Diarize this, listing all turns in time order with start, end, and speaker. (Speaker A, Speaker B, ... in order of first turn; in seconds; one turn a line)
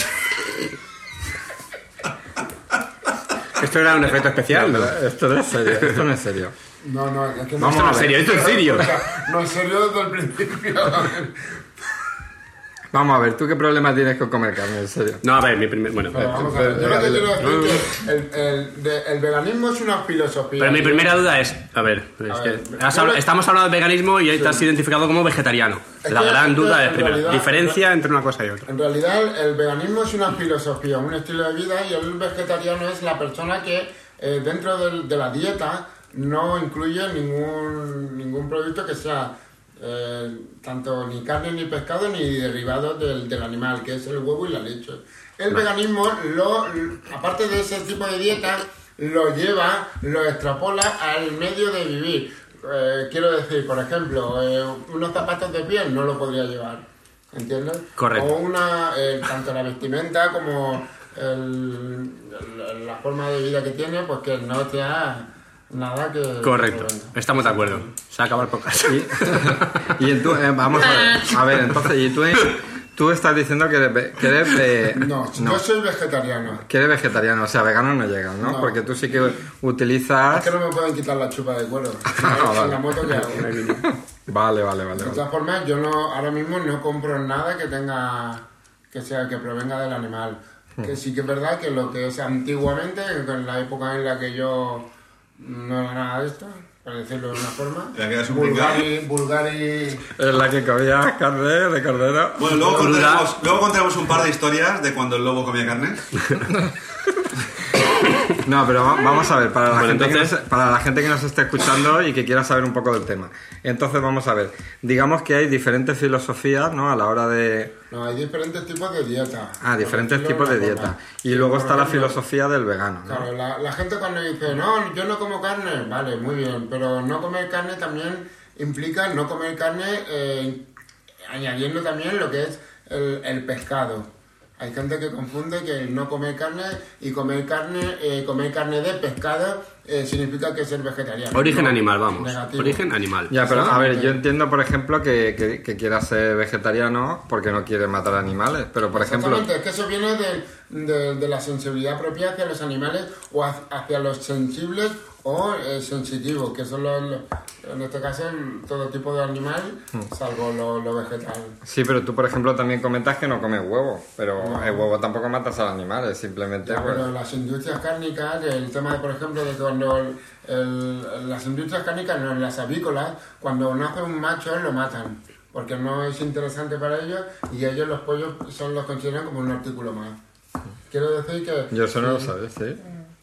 Speaker A: 3.6-5.0
Speaker B: 4.5-6.5
Speaker C: 6.8-11.4
Speaker B: 7.6-8.2
Speaker A: 7.6-8.9
Speaker B: 12.9-15.2
Speaker A: 15.2-16.3
Speaker C: 16.1-21.2
Speaker B: 16.1-17.4
Speaker A: 17.4-17.8
Speaker A: 20.6-28.7
Speaker C: 22.3-23.2
Speaker C: 24.3-24.7
Speaker C: 26.0-27.8
Speaker C: 28.7-67.9
Speaker A: 58.0-58.3
Speaker A: 66.4-69.9
Speaker B: 68.9-75.6
Speaker A: 70.9-71.3
Speaker C: 74.9-76.6
Speaker B: 76.6-80.5
Speaker C: 78.4-78.9
Speaker C: 80.3-83.8
Speaker B: 82.1-82.9
Speaker A: 83.1-83.8
Speaker B: 84.3-85.2
Speaker C: 85.0-100.1
Speaker D: 98.0-98.9
Speaker B: 100.2-102.6
Speaker D: 102.4-106.2
Speaker C: 102.4-103.0
Speaker A: 102.7-103.3
Speaker B: 108.4-117.7
Speaker A: 109.7-110.3
Speaker C: 117.9-122.2
Speaker B: 119.6-123.3
Speaker C: 123.1-130.7
Speaker C: 131.3-142.8
Speaker A: 141.3-143.5
Speaker B: 143.3-149.5
Speaker C: 143.4-144.2
Speaker C: 148.9-161.6
Speaker B: 161.6-167.1
Speaker C: 164.4-164.9
Speaker C: 166.6-180.2
Speaker C: 180.9-182.3
Speaker B: 181.7-182.8